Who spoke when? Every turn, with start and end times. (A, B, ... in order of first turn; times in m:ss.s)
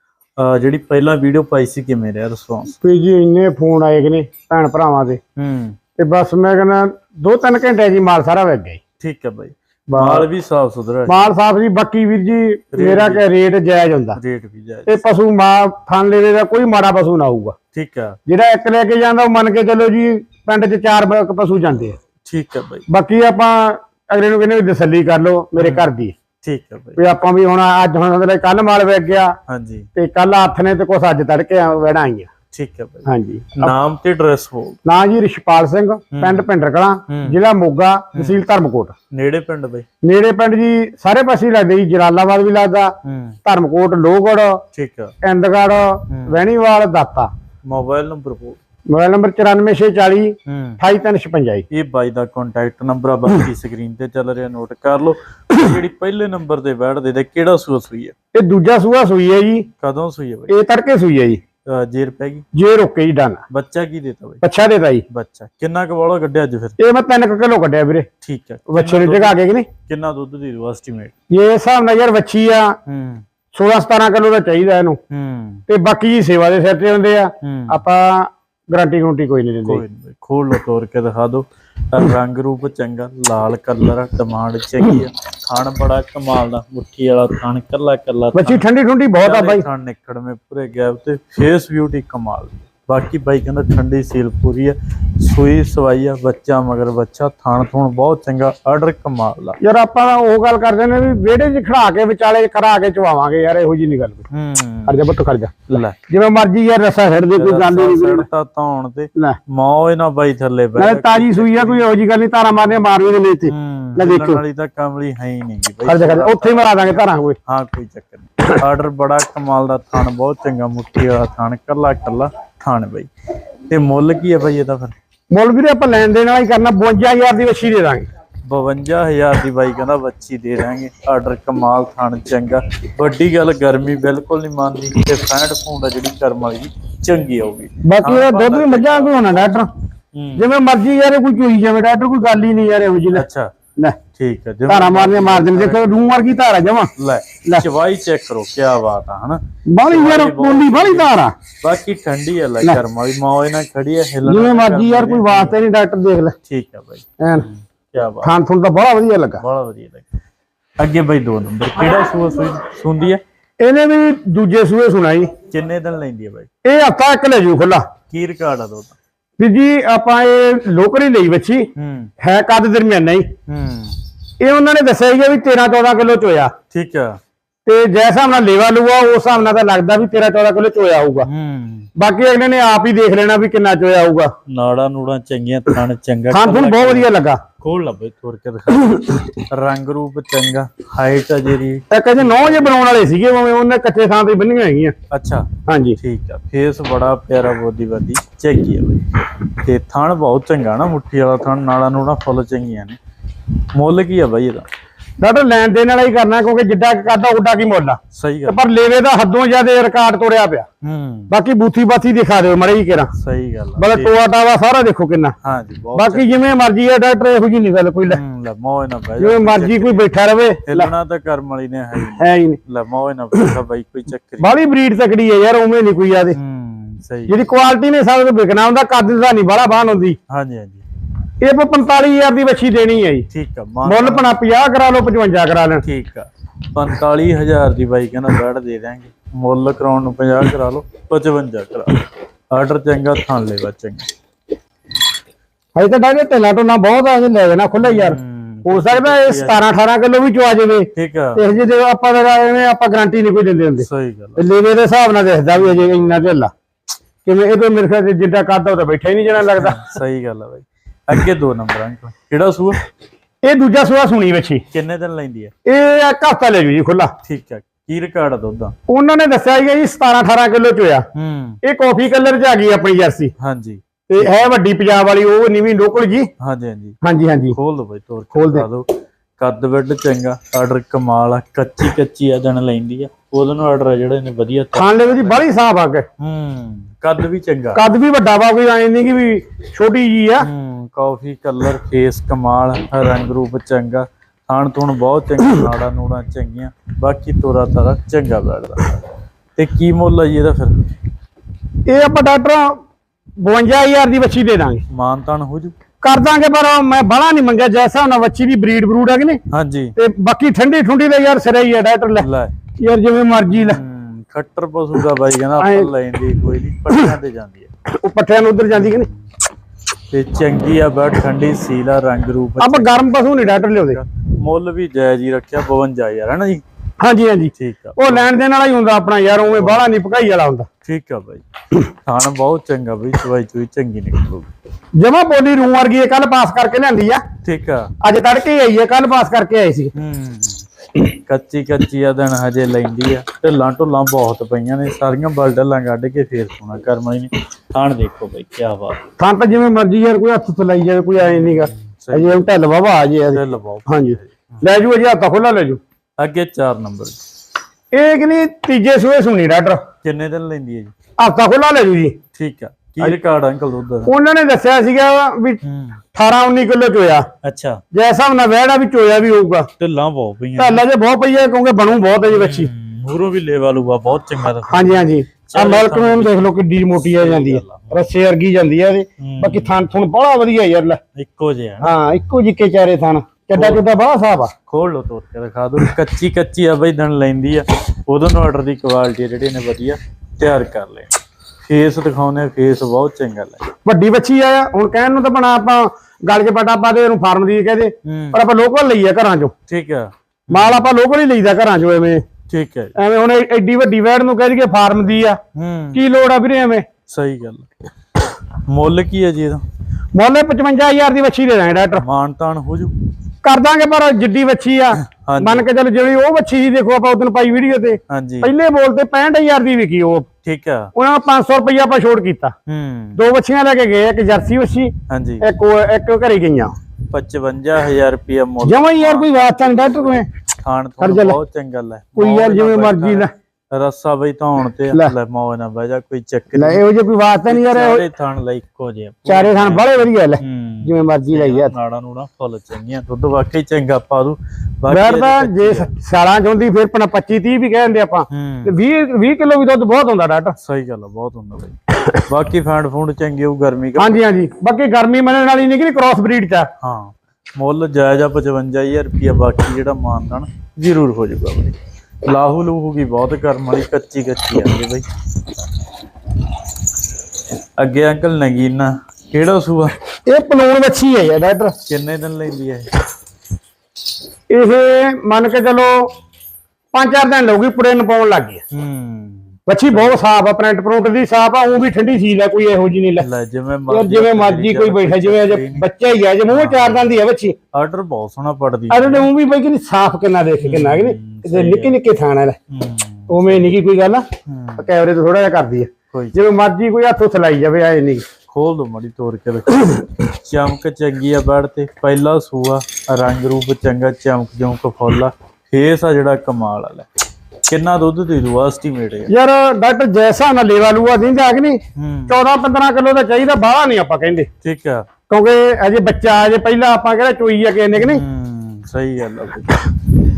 0:00.4-0:02.7 A
0:02.8-0:05.2 B
0:05.4-0:05.8 A
0:06.0-0:08.8 B
0:09.0-0:11.3 A
0:09.9-0:10.3 B
0:11.1-0:14.2 B
0:12.7-0:13.2 A
0:14.1-0:15.0 A
0:14.9-0:17.5 B
0:17.7-0:18.2 A
0:18.3-0:22.0 B
0:22.2-0:22.9 A
0:22.9-0:26.1 B
0:25.6-0:25.9 A
0:26.4-0:27.0 A
0:27.0-0:29.3 B
0:29.5-0:29.9 A
0:30.0-0:32.3 B
0:32.5-0:34.8 A
0:33.0-0:33.7 B
0:34.8-0:38.9 B
0:36.1-0:36.4 A
0:37.1-0:37.4 A
0:38.1-0:38.4 A
0:39.1-0:39.8 A
0:40.0-0:42.9 B
0:43.0-0:43.4 A
0:43.4-0:44.6 B
0:44.7-0:45.1 A
0:45.2-0:47.3 B
0:46.1-0:46.4 A
0:47.6-0:48.6 A
0:48.9-0:51.6 B
0:50.4-0:50.8 A
0:51.7-0:58.1 A
0:58.3-0:59.7 B
0:59.8-1:00.6 A
1:00.5-1:01.4 B
1:01.6-1:02.4 A
1:02.5-1:03.4 B
1:03.5-1:04.4 A
1:04.4-1:05.0 B
1:05.1-1:06.8 A
1:06.8-1:08.1 B
1:08.2-1:11.1 A
1:08.7-1:09.7 B
1:11.3-1:12.7 B
1:12.8-1:13.2 A
1:13.5-1:15.0 B
1:15.1-1:15.6 A
1:15.7-1:19.8 B
1:17.4-1:17.8 A
1:19.6-1:28.7 A
1:28.3-1:29.6 B
1:29.2-1:39.6 A
1:39.6-1:44.2 B
1:44.3-1:45.0 A
1:44.9-1:48.3 B
1:45.7-1:46.0 A
1:47.3-1:51.9 A
1:50.8-1:54.4 B
1:53.4-2:03.1 A
1:55.8-1:57.4 B
2:03.7-2:05.0 A
2:05.3-2:08.0 B
2:08.4-2:19.5 A
2:17.8-2:19.7 B
2:20.1-2:20.5 A
2:20.4-2:23.2 B
2:23.1-2:23.5 A
2:24.1-2:26.2 A
2:24.7-2:26.9 B
2:27.0-2:35.6 A
2:29.7-2:31.3 B
2:34.2-2:36.3 B
2:36.4-2:38.3 A
2:37.2-2:37.5 B
2:38.2-2:39.4 B
2:39.4-2:40.0 A
2:40.8-2:43.2 A
2:43.6-2:45.3 B
2:45.5-2:46.5 A
2:46.6-2:47.8 B
2:48.1-2:49.0 A
2:49.4-2:51.7 B
2:51.8-2:52.1 A
2:52.2-2:53.2 B
2:53.4-2:54.0 A
2:54.4-2:56.5 B
2:56.7-2:57.2 A
2:57.6-3:01.3 B
3:01.2-3:01.9 A
3:02.0-3:04.3 B
3:04.5-3:07.1 A
3:06.3-3:07.4 B
3:07.6-3:12.7 A
3:08.9-3:09.2 B
3:11.9-3:14.9 B
3:15.1-3:23.0 A
3:15.7-3:16.0 B
3:23.7-3:24.6 A
3:25.2-3:30.6 B
3:28.1-3:28.6 A
3:30.8-3:31.3 A
3:31.3-3:33.1 B
3:33.1-3:34.1 A
3:33.8-3:35.3 B
3:35.4-3:36.3 A
3:35.9-3:38.2 B
3:38.1-3:40.1 A
3:39.2-3:40.9 B
3:40.6-3:44.5 A
3:42.1-3:42.6 B
3:44.4-3:46.4 B
3:46.3-3:47.4 A
3:47.3-3:50.2 B
3:50.3-3:50.8 A
3:51.4-3:53.3 B
3:53.3-3:54.4 A
3:53.8-3:55.8 B
3:55.8-4:04.1 A
4:05.8-4:16.5 B
4:07.8-4:09.6 A
4:10.9-4:11.4 A
4:13.8-4:14.4 A
4:15.5-4:15.9 A
4:17.2-4:19.8 B
4:19.4-4:22.8 A
4:23.4-4:24.6 B
4:24.7-4:25.5 A
4:25.6-4:27.1 B
4:27.2-4:28.7 A
4:28.9-4:31.0 B
4:31.1-4:31.6 A
4:31.6-4:33.3 B
4:33.4-4:34.5 A
4:34.1-4:36.3 B
4:36.4-4:37.0 A
4:37.0-4:37.6 B
4:37.5-4:45.4 A
4:38.3-4:38.7 B
4:44.7-4:46.0 B
4:46.2-4:47.8 A
4:47.7-4:50.5 B
4:50.4-4:59.0 A
4:59.6-5:00.8 A
5:01.9-5:02.8 B
5:03.4-5:04.8 B
5:04.9-5:05.8 A
5:06.0-5:09.4 B
5:09.5-5:10.0 A
5:10.0-5:12.3 B
5:12.2-5:12.6 A
5:12.8-5:13.8 B
5:13.5-5:17.7 A
5:15.6-5:15.9 B
5:18.0-5:19.1 B
5:18.7-5:19.2 A
5:20.1-5:26.6 A
5:22.6-5:24.0 B
5:27.0-5:30.7 B
5:27.5-5:28.3 A
5:29.3-5:29.9 A
5:30.8-5:34.5 A
5:35.0-5:37.2 B
5:37.4-5:37.9 A
5:38.0-5:39.9 B
5:39.9-5:49.0 A
5:49.2-5:55.8 B
5:51.2-5:52.5 A
5:53.3-5:54.6 A
5:56.2-5:57.2 A
5:57.9-5:59.8 B
6:00.0-6:00.9 A
6:01.2-6:02.2 B
6:02.3-6:04.1 A
6:04.0-6:05.6 B
6:05.6-6:06.0 A
6:06.1-6:07.2 B
6:07.4-6:07.8 A
6:07.9-6:09.7 B
6:09.8-6:10.8 A
6:10.6-6:12.7 B
6:12.3-6:18.1 A
6:14.7-6:21.0 B
6:19.2-6:19.8 A
6:21.1-6:21.9 A
6:21.8-6:24.5 B
6:23.5-6:23.8 A
6:24.6-6:33.7 A
6:33.8-6:39.5 B
6:38.0-6:38.4 A
6:39.7-6:40.9 A
6:40.5-6:42.2 B
6:42.5-6:42.9 A
6:43.0-6:45.4 B
6:45.5-6:46.0 A
6:45.9-6:46.8 B
6:47.1-6:47.6 A
6:48.7-6:49.6 A
6:50.1-6:52.0 B
6:52.0-6:52.9 A
6:53.4-7:00.3 B
6:55.0-6:55.7 A
6:58.1-6:58.5 A
7:00.4-7:00.9 A
7:01.0-7:02.5 B
7:02.7-7:03.2 A
7:03.2-7:06.7 B
7:05.1-7:05.4 A
7:07.1-7:16.8 A
7:08.6-7:10.3 B
7:11.0-7:11.4 B
7:12.2-7:13.3 B
7:16.5-7:18.1 B
7:17.5-7:25.9 A
7:19.2-7:21.8 B
7:24.9-7:30.6 B
7:28.3-7:28.8 A
7:30.6-7:34.2 A
7:34.0-7:36.7 B
7:36.8-7:45.0 A
7:47.8-7:50.0 A
7:50.3-7:51.8 B
7:51.8-7:52.9 A
7:54.5-7:56.1 B
7:56.9-7:58.6 B
7:58.7-8:00.2 A
7:59.7-8:03.3 B
8:03.2-8:05.9 A
8:03.9-8:07.5 B
8:06.5-8:07.2 A
8:07.7-8:09.3 A
8:08.9-8:12.6 B
8:10.6-8:12.0 A
8:12.7-8:13.8 A
8:13.3-8:14.2 B
8:14.4-8:14.9 A
8:14.8-8:18.2 B
8:16.1-8:16.4 A
8:18.5-8:27.0 A
8:27.6-8:29.3 A
8:29.3-8:34.5 B
8:32.0-8:32.4 A
8:34.6-8:35.1 A
8:35.3-8:38.2 B
8:37.9-8:39.9 A